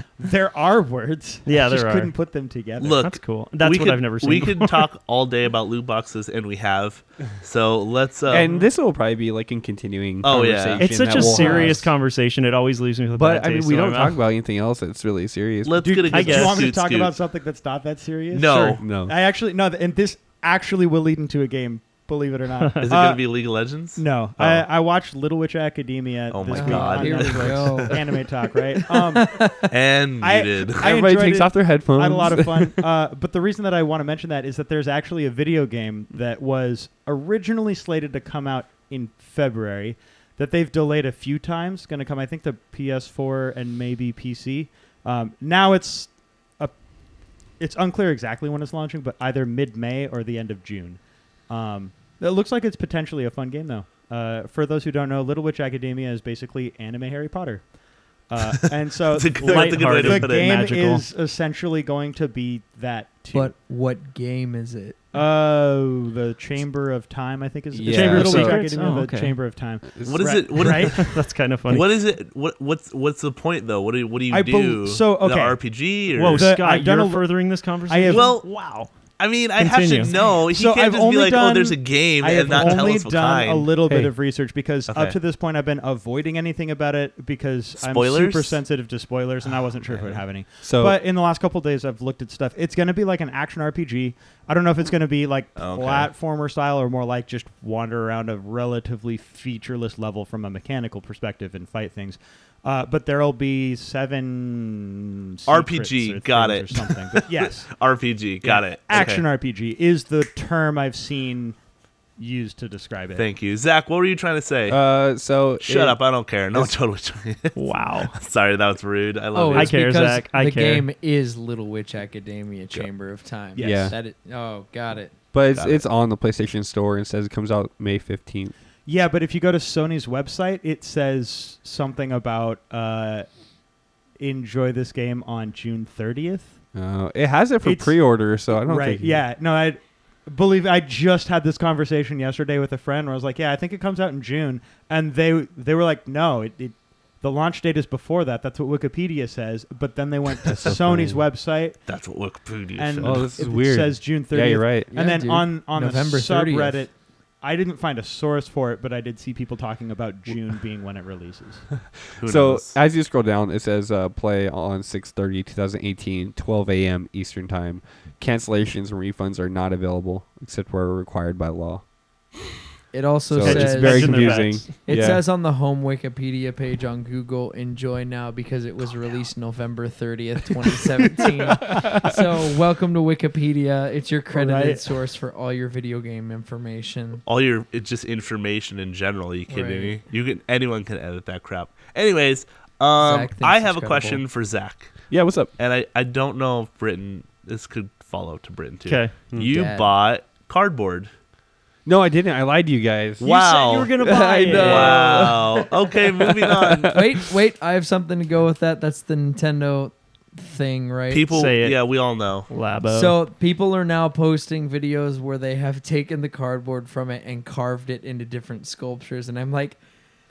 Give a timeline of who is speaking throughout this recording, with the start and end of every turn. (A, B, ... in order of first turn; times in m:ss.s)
0:00.2-0:03.0 A
0:01.4-0:02.1 B
0:02.8-0:08.5 C
0:03.0-0:04.8 B
0:08.3-0:11.9 D
0:08.3-0:08.7 A
0:10.2-0:11.0 C
0:10.8-0:14.2 B
0:11.2-0:11.7 E
0:13.2-0:16.0 D
0:15.6-0:17.1 C
0:15.8-0:23.2 A
0:16.1-0:16.7 B
0:18.3-0:18.8 C
0:18.8-0:19.1 D
0:22.8-0:24.6 C
0:24.0-0:29.4 A
0:26.3-0:27.9 C
0:26.5-0:29.7 E
0:29.7-0:30.9 C
0:30.2-0:46.7 A
0:30.8-0:32.8 D
0:47.6-0:57.7 A
0:58.3-1:03.5 A
0:58.6-1:00.5 C
0:59.4-1:01.0 B
1:03.3-1:05.1 E
1:05.1-1:11.0 A
1:07.7-1:08.6 D
1:07.9-1:09.4 B
1:10.0-1:10.4 D
1:10.0-1:11.1 C
1:10.7-1:11.9 B
1:11.7-1:16.5 C
1:14.3-1:15.6 A
1:16.2-1:18.9 B
1:16.2-1:18.4 A
1:18.1-1:18.5 C
1:19.2-1:23.7 C
1:19.6-1:20.1 B
1:20.5-1:47.7 A
1:23.9-1:24.1 D
1:24.9-1:25.2 C
1:27.8-1:28.6 C
1:29.9-1:30.2 C
1:30.6-1:31.0 D
1:35.6-1:36.1 C
1:45.5-1:49.2 C
1:48.4-1:51.6 A
1:52.2-1:53.2 A
1:53.2-1:54.8 C
1:54.7-1:56.0 D
1:55.6-1:59.8 C
1:57.6-1:58.1 B
1:59.3-2:05.2 E
1:59.5-2:00.9 B
2:03.6-2:04.0 A
2:03.6-2:03.9 D
2:05.3-2:08.5 D
2:05.5-2:05.8 C
2:08.8-2:13.3 A
2:14.2-2:16.6 A
2:16.7-2:19.2 D
2:17.6-2:31.8 A
2:30.5-2:31.2 D
2:31.9-2:33.3 C
2:32.8-2:41.7 A
2:33.0-2:34.9 D
2:34.9-2:36.8 E
2:42.2-2:42.8 C
2:42.2-2:51.8 D
2:52.9-3:07.2 E
2:53.3-2:55.2 D
2:53.4-2:54.7 B
3:01.1-3:02.0 A
3:04.3-3:05.0 A
3:07.2-3:15.0 C
3:09.5-3:10.0 E
3:13.0-3:14.2 E
3:15.1-3:15.5 D
3:15.6-3:21.1 C
3:18.8-3:19.1 B
3:19.4-3:19.9 E
3:21.8-3:23.3 D
3:23.2-3:27.0 C
3:23.2-3:25.4 B
3:24.0-3:25.6 E
3:24.1-3:25.2 D
3:26.5-3:26.9 D
3:26.8-3:31.3 E
3:31.1-3:32.5 C
3:31.3-3:31.8 B
3:32.5-3:33.2 B
3:32.8-3:39.8 E